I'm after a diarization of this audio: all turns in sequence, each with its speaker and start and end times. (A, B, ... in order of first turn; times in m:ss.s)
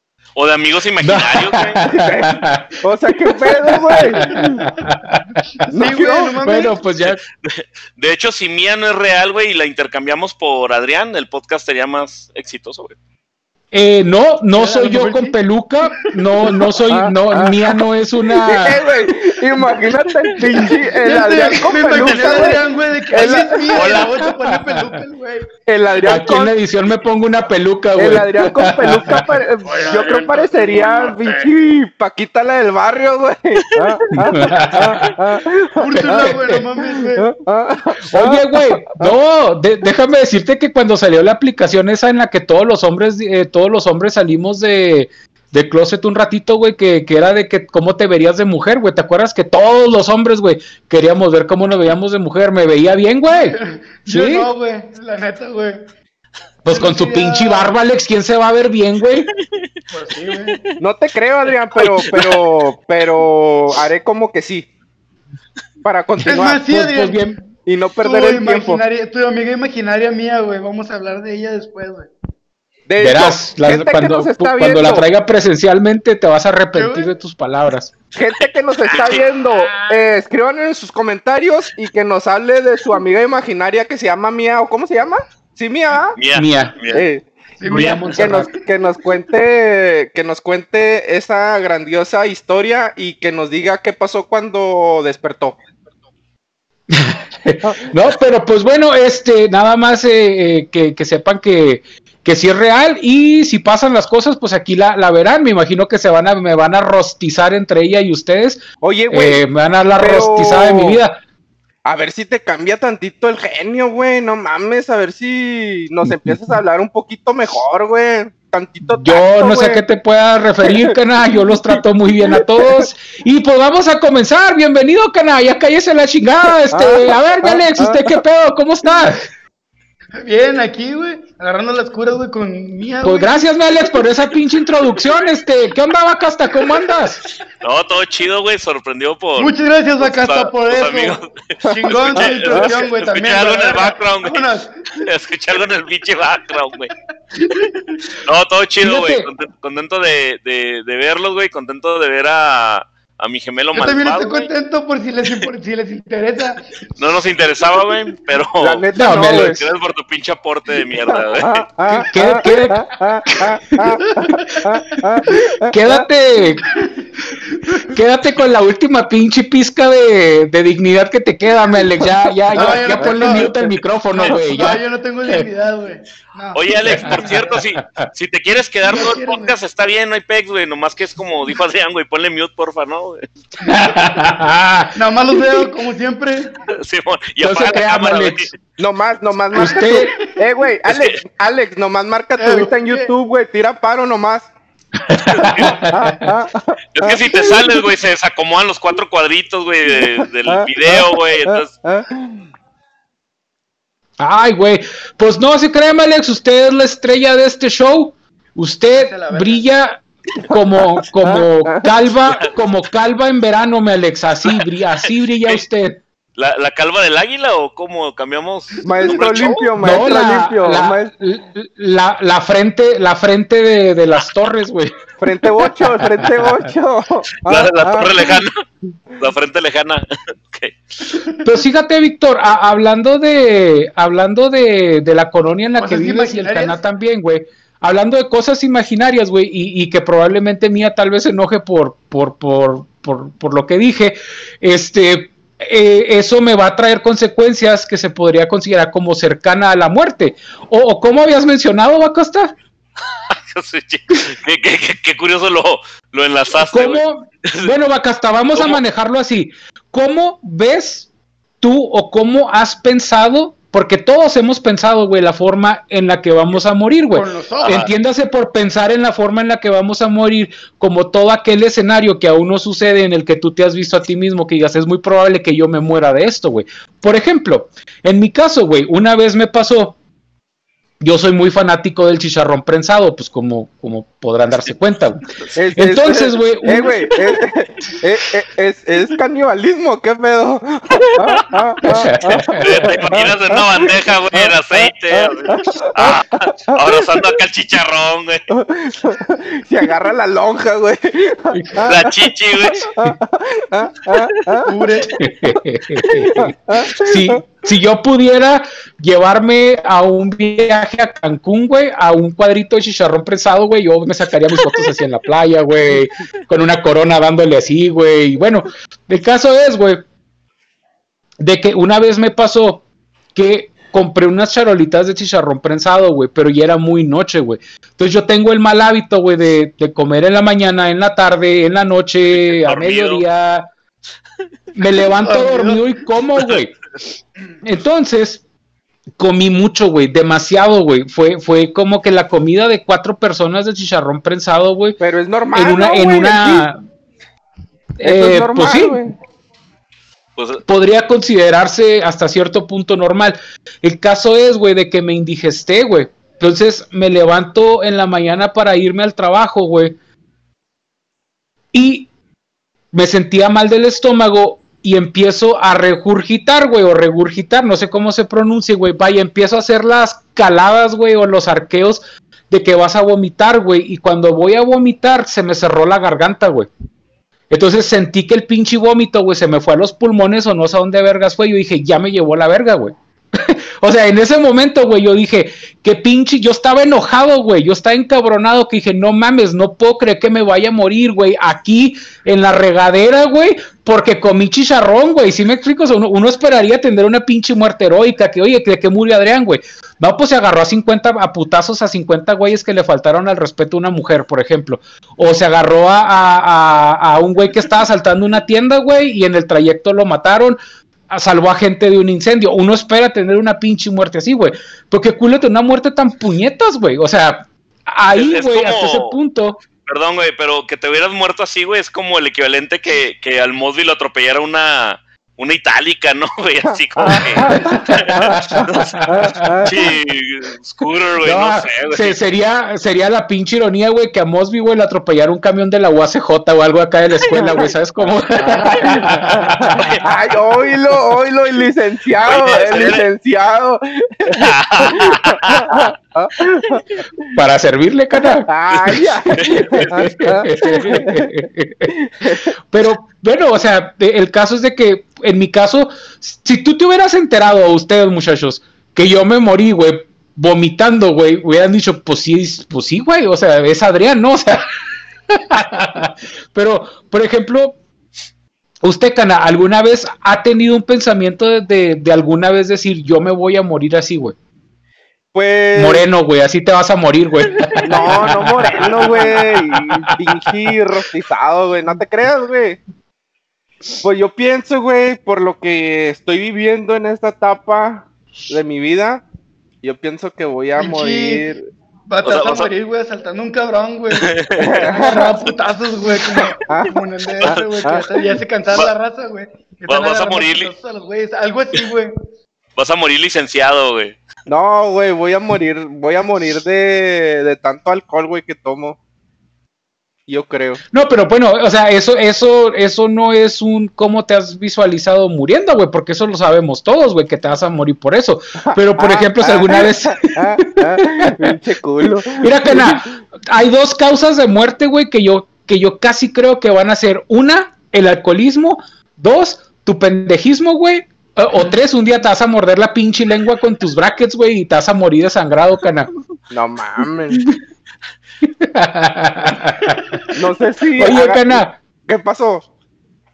0:00.4-0:01.8 A
0:01.0-0:05.5 B
0:01.8-0:04.7 C
0:05.6-0:06.8 D
0:05.7-0:06.4 C
0:06.4-0:07.2 B
0:07.1-0:13.0 A
0:13.7-0:18.8 B
0:14.5-0:15.4 D
0:15.9-0:16.6 D
0:16.9-0:17.8 C
0:18.4-0:24.0 C
0:20.4-0:25.5 D
0:23.2-0:24.2 A
0:24.2-0:24.6 B
0:25.7-0:26.5 C
0:26.0-0:29.2 B
0:28.0-0:39.2 C
0:29.6-0:31.5 D
0:34.2-0:35.2 B
0:35.8-0:37.3 D
0:36.0-0:36.6 B
0:38.1-0:54.5 B
0:53.3-0:55.9 D
0:56.6-0:59.3 B
0:56.7-0:57.7 D
0:59.3-0:59.7 A
0:59.9-1:00.6 D
1:00.3-1:00.8 A
1:00.8-1:04.7 C
1:01.8-1:02.4 A
1:05.8-1:06.6 C
1:06.3-1:07.4 D
1:06.4-1:07.4 B
1:07.7-1:08.8 C
1:08.0-1:12.1 D
1:12.9-1:15.1 C
1:13.0-1:17.9 B
1:16.7-1:17.1 D
1:18.2-1:26.2 C
1:18.9-1:19.3 A
1:26.2-1:27.0 A
1:26.3-1:26.7 B
1:26.9-1:27.2 C
1:27.6-1:28.6 D
1:27.7-1:28.5 B
1:28.2-1:35.6 C
1:36.9-1:51.2 B
1:37.6-1:37.9 C
1:48.8-1:49.4 C
1:50.0-1:51.0 C
1:51.8-1:59.8 C
1:56.1-1:56.5 B
1:59.0-2:09.2 B
2:00.6-2:02.9 C
2:06.5-2:08.2 C
2:10.2-2:13.5 D
2:13.0-2:17.2 B
2:17.6-2:26.9 A
2:19.4-2:21.2 D
2:21.6-2:22.8 C
2:21.7-2:25.1 D
2:27.4-2:28.2 D
2:28.2-2:34.5 A
2:28.8-2:29.3 B
2:33.7-2:36.7 D
2:37.0-2:41.6 A
2:38.6-2:39.7 C
2:39.0-2:39.6 B
2:41.1-2:46.0 C
2:42.1-2:43.5 B
2:44.1-2:44.8 D
2:45.7-2:46.7 B
2:46.7-2:48.0 D
2:47.9-2:55.5 B
2:52.0-2:53.8 C
2:52.5-2:53.5 D
2:54.2-2:57.6 D
2:56.5-3:03.2 A
2:56.9-2:58.1 B
2:58.9-2:59.6 D
3:03.6-3:05.6 B
3:03.7-3:03.9 D
3:05.0-3:06.6 D
3:06.7-3:08.6 A
3:07.4-3:08.5 B
3:08.8-3:14.5 C
3:09.5-3:10.1 B
3:09.6-3:10.1 D
3:10.9-3:11.2 A
3:12.4-3:13.1 D
3:15.1-3:16.3 B
3:15.3-3:15.8 A
3:15.7-3:17.8 C
3:17.0-3:21.7 A
3:19.9-3:22.5 C
3:24.2-3:36.0 B
3:28.9-3:29.7 D
3:30.4-3:31.9 C
3:36.4-3:39.7 A
3:38.8-3:41.1 C
3:39.0-3:39.4 D
3:39.8-3:45.0 B
3:45.2-3:48.4 C
3:45.8-3:46.7 B
3:47.5-3:48.6 A
3:49.2-3:50.8 A
3:51.4-4:12.5 B
3:55.8-3:56.8 D
4:13.3-4:17.7 A
4:16.6-4:21.1 B
4:18.6-4:18.8 A
4:21.6-4:40.0 B
4:27.1-4:27.9 D
4:27.6-4:27.9 A
4:41.0-4:45.2 B
4:45.6-4:56.2 C
4:45.8-4:47.0 B
4:51.0-4:51.4 A
4:51.8-4:52.7 B
4:52.6-4:58.4 A
4:56.8-4:57.2 C
4:58.5-5:02.2 C
5:01.5-5:01.9 B
5:01.8-5:02.9 A
5:02.8-5:04.7 C
5:04.2-5:04.6 A
5:04.6-5:05.3 D
5:05.2-5:20.0 B
5:06.0-5:07.4 C
5:21.4-5:22.8 B
5:23.3-5:33.7 B
5:32.3-5:33.2 A
5:34.8-5:36.8 B
5:35.1-5:35.9 D
5:37.6-5:38.4 B
5:39.2-5:45.0 B
5:45.0-5:46.7 C
5:45.5-5:46.8 B
5:48.0-5:49.0 B
5:48.0-5:49.2 C
5:50.4-5:50.6 A
5:50.7-6:00.0 B
6:01.7-6:02.1 B
6:02.9-6:16.7 B
6:17.5-6:50.6 B
6:51.1-6:59.6 B
6:58.2-6:59.2 A
6:59.8-7:09.1 A
7:07.0-7:10.0 C
7:07.4-7:09.5 B
7:09.6-7:12.2 A
7:11.2-7:20.0 B
7:17.3-7:17.7 C
7:18.5-7:26.8 C
7:19.8-7:20.0 A
7:22.2-7:23.1 A
7:24.3-7:25.9 A
7:27.3-7:28.5 B
7:28.5-7:31.3 C
7:29.3-7:31.9 B
7:31.9-7:32.5 C
7:32.7-7:44.7 B
7:45.3-7:47.8 B
7:48.8-7:54.4 B
7:55.3-7:56.0 C
7:55.8-8:00.3 B
7:57.8-8:02.8 C
8:04.0-8:09.2 C
8:09.8-8:11.6 C
8:10.8-8:11.5 D
8:12.1-8:22.1 D
8:12.2-8:12.7 A
8:14.1-8:14.9 A
8:14.6-8:15.4 C
8:16.2-8:18.1 C
8:19.9-8:20.7 A
8:22.8-8:24.2 A
8:24.5-8:29.0 C
8:30.3-8:30.8 C
8:30.9-8:41.5 B
8:38.6-8:43.1 C
8:42.4-8:56.1 B
8:56.5-8:57.4 C
8:58.4-9:00.2 B
9:00.4-9:02.7 C
9:01.0-9:01.8 B